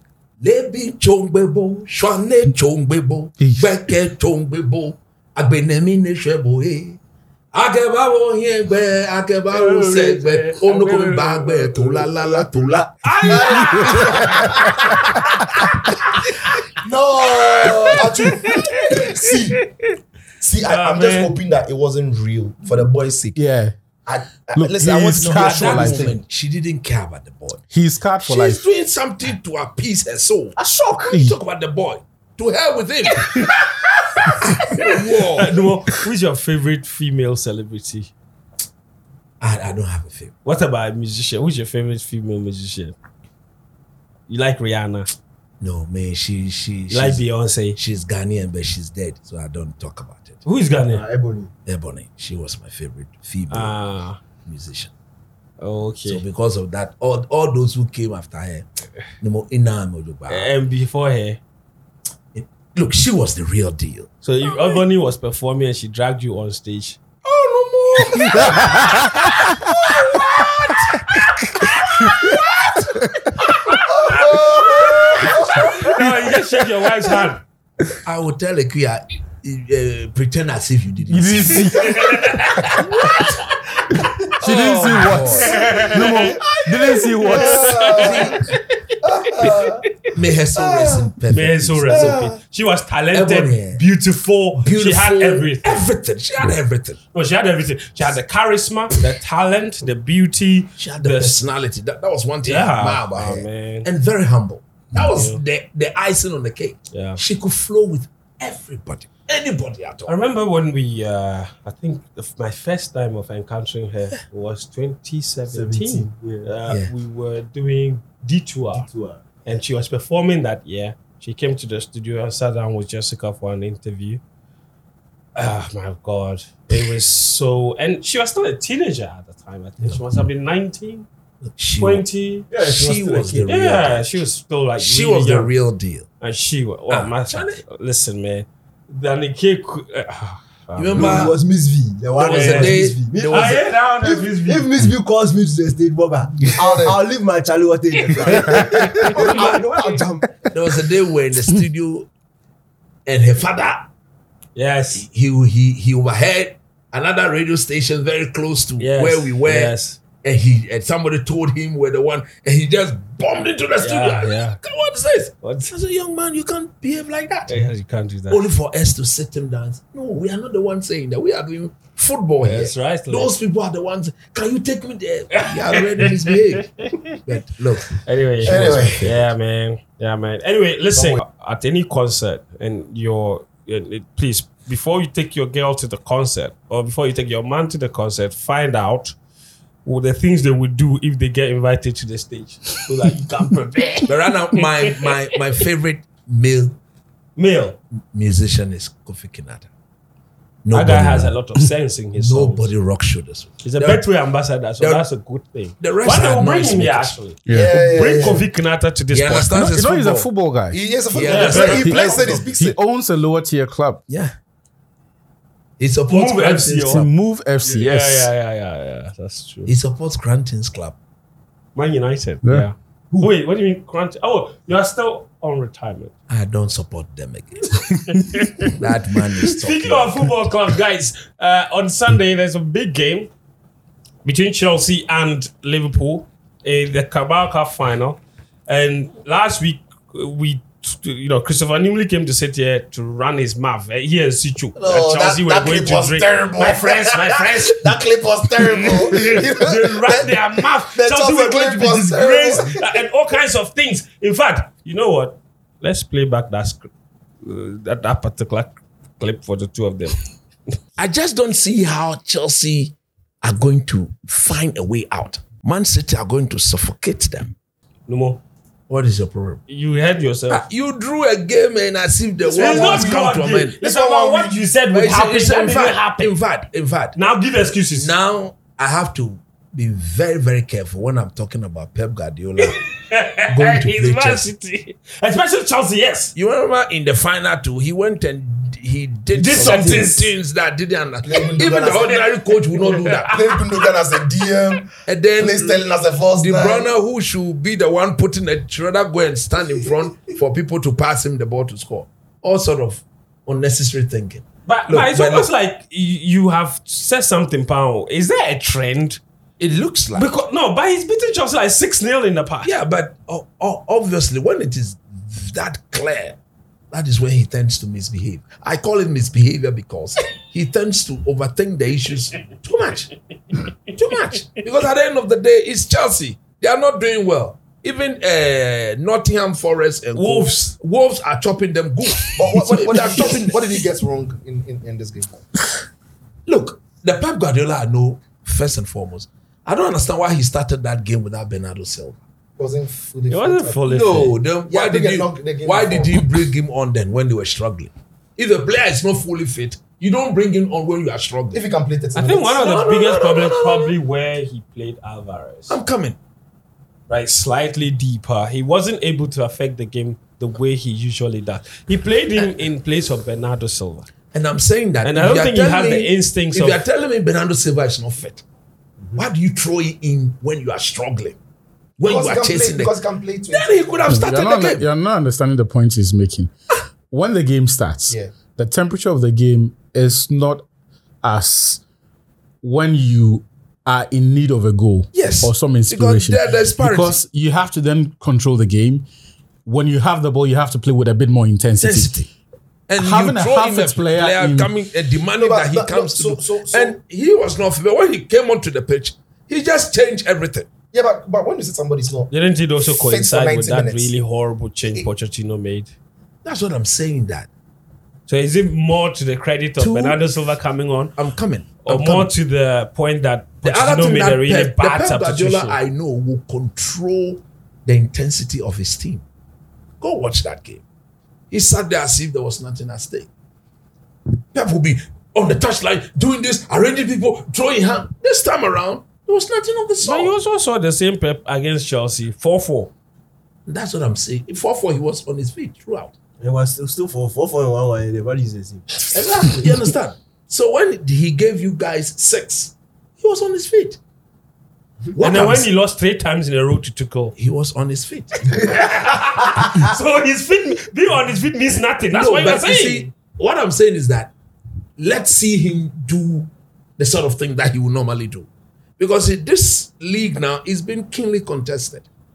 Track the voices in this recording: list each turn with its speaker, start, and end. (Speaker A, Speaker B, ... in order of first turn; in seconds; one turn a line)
Speaker A: 0.4-7.0
Speaker B: 3.4-3.7
Speaker A: 7.5-13.3
Speaker C: 9.5-11.8
Speaker D: 11.9-14.8
Speaker C: 13.0-14.3
Speaker E: 13.3-14.5
Speaker E: 16.8-19.6
Speaker C: 17.6-19.9
Speaker E: 20.4-23.4
Speaker C: 20.6-21.4
Speaker B: 23.3-23.7
Speaker E: 24.1-26.2
Speaker B: 24.5-26.1
Speaker A: 25.1-27.6
Speaker B: 27.7-28.6
Speaker A: 28.2-33.5
Speaker D: 30.6-31.2
Speaker B: 31.1-31.4
Speaker A: 34.4-35.6
Speaker C: 35.3-38.1
Speaker A: 39.4-40.3
Speaker C: 40.4-42.9
Speaker C: 44.3-45.1
Speaker A: 45.6-47.2
Speaker C: 46.9-47.8
Speaker A: 47.8-50.4
Speaker C: 50.4-51.0
Speaker D: 50.9-51.5
Speaker A: 51.6-53.7
Speaker C: 53.5-54.2
Speaker A: 54.4-54.9
Speaker C: 55.6-56.2
Speaker A: 56.0-58.7
Speaker A: 59.2-60.5
Speaker C: 60.3-61.4
Speaker A: 62.3-64.1
Speaker C: 64.2-67.0
Speaker E: 67.2-68.8
Speaker A: 68.0-68.8
Speaker B: 68.2-69.3
Speaker C: 68.6-69.1
Speaker E: 70.1-70.4
Speaker A: 70.3-70.7
Speaker C: 73.7-77.4
Speaker E: 73.8-75.7
Speaker A: 78.0-83.3
Speaker B: 81.1-82.8
Speaker C: 81.7-82.5
Speaker A: 84.4-88.5
Speaker B: 84.4-88.0
Speaker C: 84.5-86.5
Speaker C: 87.2-88.9
Speaker E: 87.3-88.4
Speaker E: 89.0-89.8
Speaker C: 89.4-90.1
Speaker A: 90.1-92.3
Speaker E: 90.5-91.1
Speaker C: 91.3-95.9
Speaker E: 91.9-92.4
Speaker A: 93.1-93.8
Speaker A: 94.6-97.0
Speaker C: 97.1-101.5
Speaker A: 100.8-110.1
Speaker C: 102.4-103.9
Speaker C: 105.1-105.4
Speaker C: 106.9-107.2
Speaker C: 110.1-118.9
Speaker D: 115.5-116.5
Speaker D: 118.7-119.2
Speaker C: 119.4-124.2
Speaker C: 125.3-131.1
Speaker A: 131.5-134.2
Speaker C: 131.8-132.5
Speaker D: 132.5-133.5
Speaker C: 133.5-135.5
Speaker A: 134.8-136.1
Speaker C: 136.2-141.3
Speaker A: 136.9-137.6
Speaker A: 140.8-141.4
Speaker D: 140.9-150.3
Speaker A: 142.2-143.7
Speaker C: 142.2-144.7
Speaker E: 146.4-147.0
Speaker C: 148.1-148.4
Speaker A: 148.5-152.1
Speaker A: 153.1-153.9
Speaker C: 154.5-155.1
Speaker A: 154.9-167.7
Speaker C: 158.8-160.0
Speaker C: 163.8-164.6
Speaker C: 165.4-165.7
Speaker C: 167.5-168.5
Speaker A: 168.3-176.7
Speaker C: 172.4-173.3
Speaker C: 175.3-177.2
Speaker A: 177.2-179.2
Speaker C: 177.9-189.1
Speaker E: 178.4-179.2
Speaker E: 180.9-181.2
Speaker C: 189.8-195.1
Speaker A: 194.1-196.8
Speaker C: 197.3-197.8
Speaker A: 198.1-199.7
Speaker A: 200.6-201.6
Speaker C: 200.7-202.7
Speaker A: 202.1-204.1
Speaker C: 203.6-209.8
Speaker A: 204.8-205.1
Speaker A: 205.8-207.2
Speaker B: 207.4-207.7
Speaker E: 207.5-208.5
Speaker A: 209.1-210.3
Speaker B: 209.7-210.8
Speaker E: 210.7-212.8
Speaker A: 211.1-212.4
Speaker C: 211.3-212.2
Speaker B: 211.7-214.0
Speaker A: 214.1-214.3
Speaker A: 215.8-217.0
Speaker C: 216.1-217.1
Speaker B: 216.8-218.3
Speaker C: 217.6-219.7
Speaker A: 219.7-220.9
Speaker C: 221.7-226.1
Speaker B: 222.4-222.7
Speaker A: 226.3-227.9
Speaker C: 227.8-228.8
Speaker B: 228.2-228.5
Speaker A: 228.8-230.3
Speaker C: 229.5-233.3
Speaker C: 234.2-247.9
Speaker E: 244.8-253.0
Speaker C: 248.6-256.9
Speaker C: 257.4-260.2
Speaker A: 261.0-267.6
Speaker C: 268.1-268.4
Speaker A: 268.9-269.6
Speaker C: 269.7-270.6
Speaker A: 270.5-273.8
Speaker E: 272.4-274.6
Speaker C: 272.5-276.3
Speaker A: 274.9-277.1
Speaker C: 277.1-278.1
Speaker A: 277.9-282.9
Speaker C: 282.6-286.3
Speaker A: 283.5-284.5
Speaker A: 286.3-293.3
Speaker C: 289.3-290.3
Speaker E: 289.5-290.0
Speaker E: 291.2-292.3
Speaker C: 292.8-293.8
Speaker E: 293.3-296.9
Speaker A: 295.0-295.8
Speaker A: 296.4-305.5
Speaker C: 304.7-309.2
Speaker A: 309.6-310.3
Speaker C: 310.1-312.7
Speaker A: 312.6-316.4
Speaker A: 316.9-323.1
Speaker A: 323.9-333.8
Speaker C: 330.1-330.7
Speaker E: 332.3-335.4
Speaker A: 336.4-342.2
Speaker E: 342.6-343.9
Speaker C: 343.3-344.4
Speaker A: 343.9-351.6
Speaker E: 344.6-346.3
Speaker E: 351.5-352.6
Speaker C: 352.1-355.8
Speaker A: 352.6-353.9
Speaker A: 355.7-356.2
Speaker C: 357.1-364.1
Speaker A: 364.3-368.4
Speaker C: 365.0-366.8
Speaker A: 369.1-371.4
Speaker A: 372.0-373.0
Speaker E: 372.0-373.7
Speaker A: 373.5-374.9
Speaker B: 374.1-376.5
Speaker B: 377.1-380.6
Speaker B: 381.2-381.8
Speaker B: 382.6-389.1
Speaker A: 385.1-387.2
Speaker B: 389.6-392.1
Speaker A: 391.8-392.3
Speaker A: 392.9-400.7
Speaker B: 393.0-394.7
Speaker E: 395.4-397.0
Speaker E: 400.9-404.1
Speaker C: 402.3-405.9
Speaker A: 406.4-407.5
Speaker C: 408.3-411.1
Speaker A: 409.8-410.2
Speaker A: 411.1-412.3
Speaker C: 411.8-415.8
Speaker A: 413.6-419.2
Speaker A: 420.0-420.8
Speaker A: 421.5-423.3
Speaker A: 424.5-430.4
Speaker C: 430.0-432.9
Speaker A: 433.7-436.1
Speaker D: 436.4-439.6
Speaker A: 439.1-444.0
Speaker A: 445.1-445.7
Speaker C: 445.2-447.3
Speaker A: 447.4-448.5
Speaker C: 448.5-453.1
Speaker A: 452.1-454.3
Speaker A: 455.0-458.5
Speaker A: 459.0-462.1